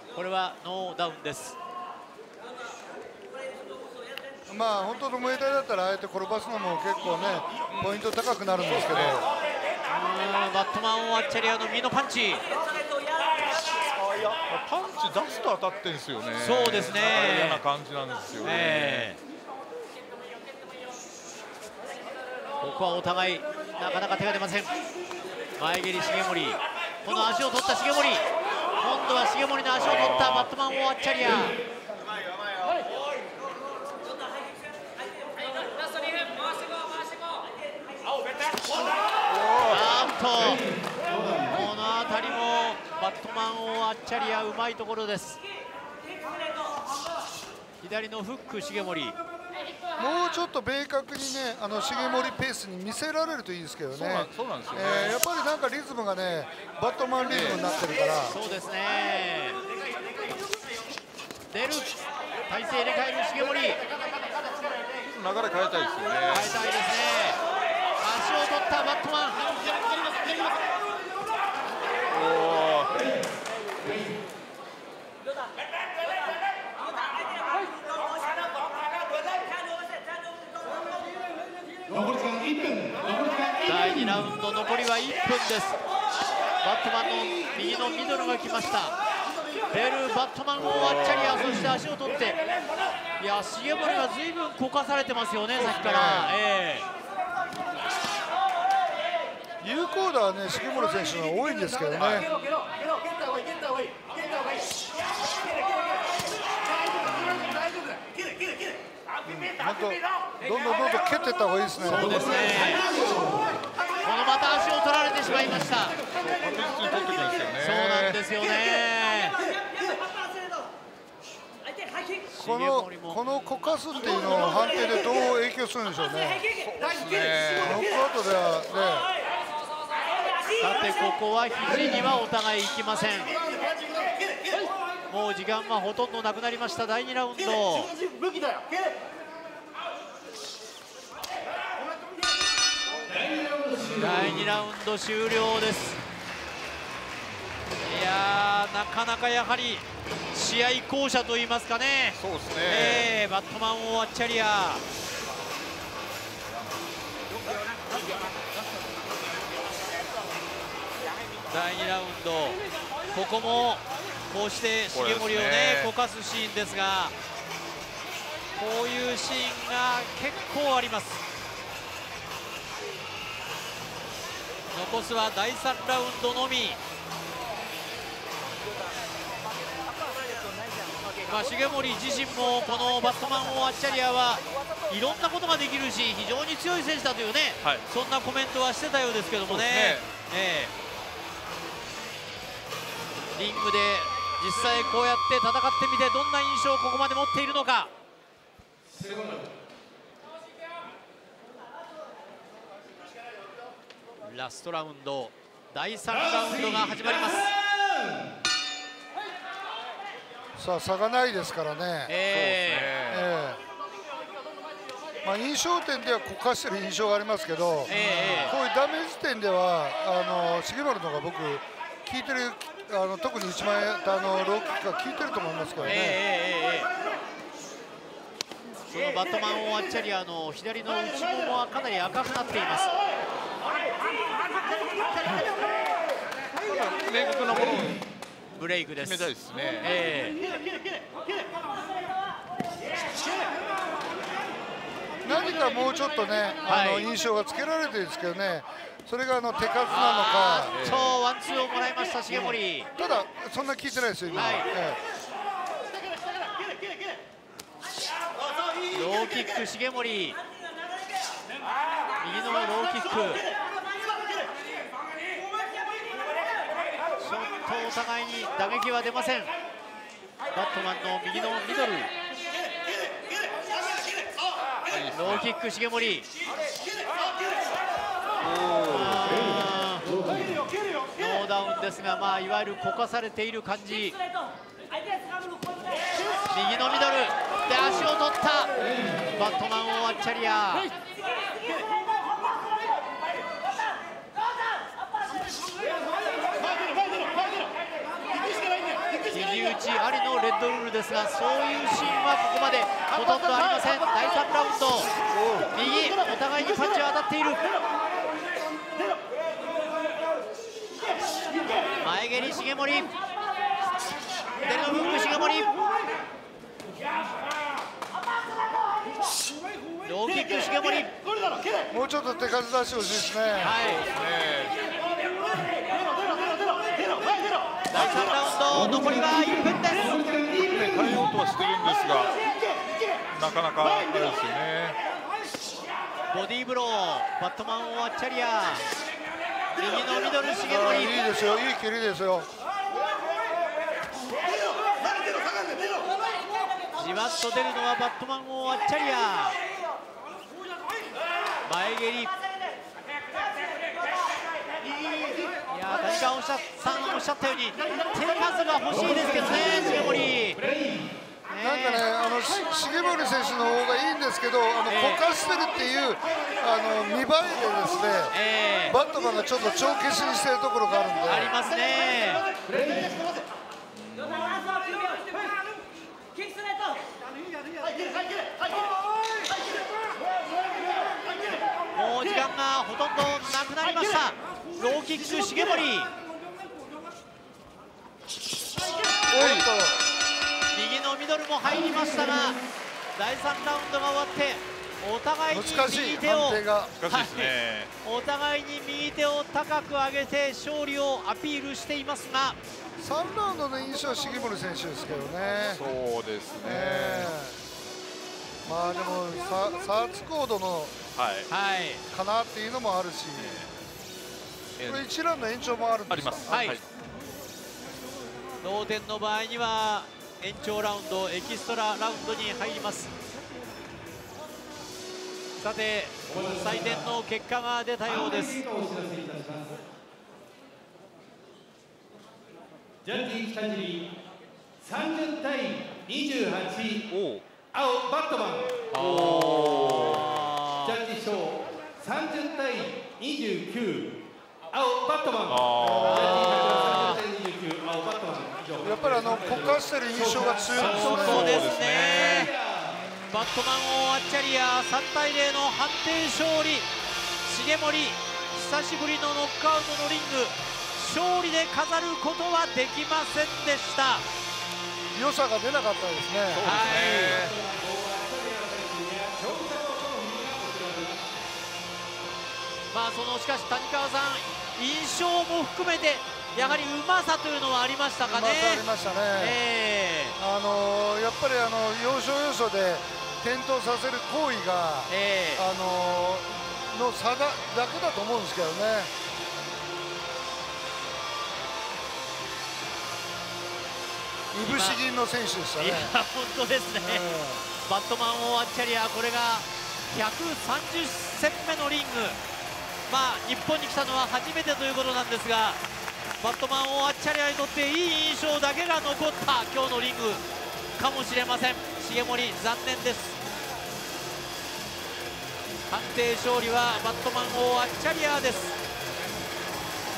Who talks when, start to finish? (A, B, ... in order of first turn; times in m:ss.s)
0:00.1-0:01.6 A
0:04.5-0:09.3 B
0:08.7-0:09.2 C
0:09.9-0:12.5 A
0:14.2-0:19.1 C
0:16.4-0:17.7 A
0:18.4-0:19.2 A
0:22.6-0:24.8 A
0:25.6-0:31.6 A
0:29.7-0:30.5 C
0:39.3-0:40.6 C
0:39.7-0:40.7 A
0:41.4-0:45.4 A
0:47.8-0:49.2 A
0:50.0-0:58.4 B
0:53.9-0:55.2 C
0:57.2-0:57.6 C
0:58.2-0:59.6 A
1:01.5-1:01.9 A
1:02.5-1:03.8 A
1:05.0-1:06.6 C
1:06.3-1:07.4 A
1:08.0-1:09.6 A
1:12.1-1:13.0 C
1:23.6-1:25.8 A
1:26.6-1:29.0 A
1:29.7-1:32.4 A
1:30.6-1:31.6 C
1:33.2-1:36.9 A
1:35.5-1:36.4 B
1:39.6-1:42.3 B
1:42.0-1:42.2 C
1:49.2-1:52.2 B
1:51.8-1:52.9 A
1:54.0-1:56.0 A
1:56.2-1:58.2 C
1:57.6-1:59.4 A
2:02.3-2:06.4 B
2:02.3-2:03.2 A
2:06.6-2:07.8 C
2:07.6-2:09.1 B
2:10.6-2:13.4 A
2:15.1-2:18.0 A
2:23.8-2:24.6 C
2:24.0-2:26.0 A
2:27.8-2:34.8 A
2:32.2-2:33.1 C
2:41.5-2:47.2 A
2:44.9-2:45.9 C
2:48.6-2:51.2 A
2:54.7-2:56.8 A
3:01.2-3:10.7 A
3:09.5-3:10.1 C
3:13.4-3:17.9 A
3:24.2-3:27.5 A
3:30.6-3:32.1 B
3:32.1-3:33.0 A
3:32.3-3:33.3 C
3:33.1-3:33.6 B
3:35.2-3:46.2 B
3:37.9-3:38.5 C
3:37.9-3:38.6 A
3:45.9-3:46.9 A
3:48.8-3:52.9 A
3:56.7-3:58.0 C
3:58.6-4:00.4 A
3:59.0-4:00.0 C
4:05.2-4:10.7 B
4:06.7-4:07.1 A
4:09.9-4:12.9 A
4:10.7-4:11.2 C
4:12.3-4:15.0 B
4:14.3-4:14.7 A
4:18.9-4:20.4 A
4:22.2-4:23.5 A
4:27.2-4:29.5 A
4:30.5-4:32.1 A
4:34.9-4:35.5 C
4:35.1-4:36.3 A
4:38.4-4:39.3 C
4:38.9-4:40.4 A
4:41.2-4:44.2 A
4:46.5-4:50.9 A
4:59.2-5:05.1 A
5:05.3-5:05.7 C
5:05.7-5:07.7 A
5:12.0-5:13.1 A
5:14.6-5:15.7 A
5:20.0-5:21.1 A
5:21.9-5:23.8 B
5:23.6-5:24.1 A
5:24.1-5:24.8 C
5:27.9-5:30.3 A
5:28.0-5:28.2 C
5:30.6-5:32.4 C
5:33.3-5:35.0 C
5:36.3-5:38.8 A
5:39.8-5:41.2 A
5:40.6-5:42.5 B
5:47.0-5:49.6 A
5:51.6-5:52.3 A
5:55.7-6:00.6 A
6:01.5-6:02.0 A
6:01.6-6:08.4 B
6:04.9-6:05.2 A
6:08.3-6:09.0 A
6:08.9-6:11.5 B
6:11.2-6:12.5 A
6:14.0-6:14.9 C
6:21.9-6:26.1 A
6:29.3-6:29.7 C
6:29.3-6:30.0 B
6:30.7-6:32.6 A
6:33.2-6:42.6 A
6:35.5-6:37.0 B
6:37.0-6:37.9 C
6:43.0-6:45.8 B
6:45.7-6:47.3 C
6:46.6-6:47.6 B
6:48.6-6:50.9 B
6:51.2-6:51.5 C
6:51.5-6:52.0 A
6:52.1-6:53.6 B
6:53.4-6:53.7 C
6:54.8-6:55.1 C
6:54.9-6:56.8 B
6:56.1-6:56.8 C
6:56.5-6:56.8 A
6:58.6-7:03.1 A
7:05.6-7:08.7 A
7:08.9-7:09.5 D
7:13.1-7:14.0 D
7:15.2-7:16.8 D
7:17.1-7:17.5 C
7:18.9-7:21.1 A
7:18.9-7:20.5 C
7:22.1-7:23.7 D
7:25.5-7:26.9 C
7:25.8-7:27.2 B
7:26.0-7:27.2 A
7:27.0-7:29.6 D
7:28.8-7:31.6 B
7:30.8-7:32.5 A
7:30.8-7:32.5 C
7:33.2-7:36.9 A
7:37.4-7:44.3 A
7:45.1-7:46.7 B
7:46.5-7:47.6 C
7:46.6-7:47.5 A
7:49.4-7:50.3 D
7:52.9-8:00.4 A
7:56.6-7:56.9 B
7:58.2-7:59.6 B
8:00.4-8:09.1 B
8:05.1-8:05.7 A
8:14.5-8:16.2 B
8:14.6-8:15.0 A
8:15.8-8:22.4 A
8:17.0-8:17.6 B
8:23.1-8:25.8 A
8:26.4-8:30.4 A
8:31.0-8:33.4 A
8:35.9-8:38.8 A